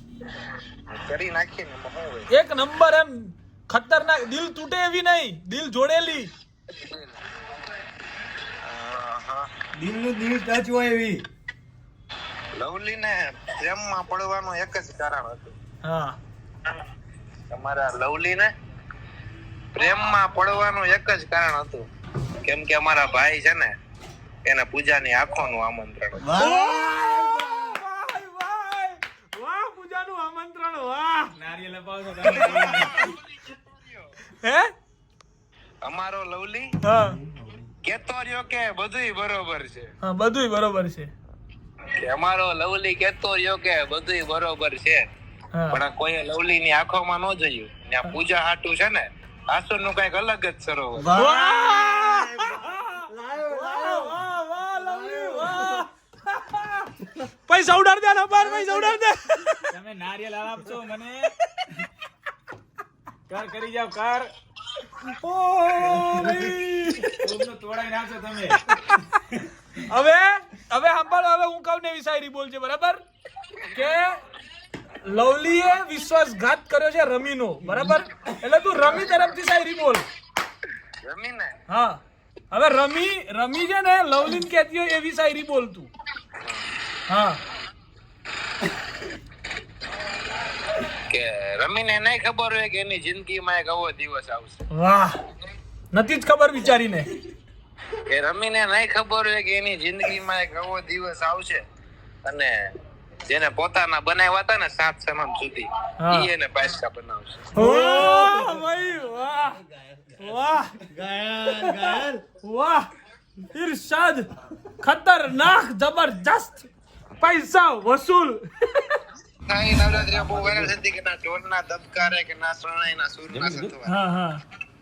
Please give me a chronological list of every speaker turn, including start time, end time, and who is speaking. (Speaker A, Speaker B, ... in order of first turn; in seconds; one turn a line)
Speaker A: 0.9-2.3
Speaker B: 2.3-6.3
Speaker A: 6.7-7.2
Speaker A: 8.6-9.5
Speaker C: 9.8-11.2
Speaker A: 12.6-15.5
Speaker B: 15.8-16.2
Speaker A: 17.5-18.5
Speaker A: 19.7-21.9
Speaker A: 22.4-23.7
Speaker A: 24.4-26.4
Speaker B: 26.3-31.3
Speaker D: 31.4-33.1
Speaker A: 32.4-34.0
Speaker B: 34.3-34.7
Speaker A: 35.8-36.8
Speaker B: 36.8-37.2
Speaker A: 37.8-39.9
Speaker B: 40.0-41.1
Speaker A: 42.0-45.0
Speaker B: 45.5-45.8
Speaker A: 45.7-51.2
Speaker B: 51.1-59.7
Speaker C: 53.1-53.9
Speaker D: 59.7-61.3
Speaker D: 63.3-64.3
Speaker B: 64.9-67.2
Speaker D: 67.2-68.6
Speaker B: 68.6-69.2
Speaker B: 69.8-73.0
Speaker B: 73.7-74.2
Speaker B: 75.0-80.0
Speaker A: 81.0-81.5
Speaker B: 81.7-82.0
Speaker B: 82.5-85.9
Speaker B: 87.1-87.4
Speaker A: 90.8-94.6
Speaker B: 94.7-95.2
Speaker B: 95.9-97.1
Speaker A: 98.1-101.6
Speaker A: 102.2-102.5
Speaker A: 103.3-107.6
Speaker B: 106.0-106.3
Speaker B: 107.5-109.6
Speaker C: 108.0-108.6
Speaker C: 109.6-110.3
Speaker B: 110.2-110.9
Speaker C: 110.9-112.2
Speaker B: 111.5-112.9
Speaker B: 113.4-114.3
Speaker B: 114.8-119.0
Speaker A: 119.5-123.9
Speaker D: 123.3-123.8
Speaker B: 123.8-124.4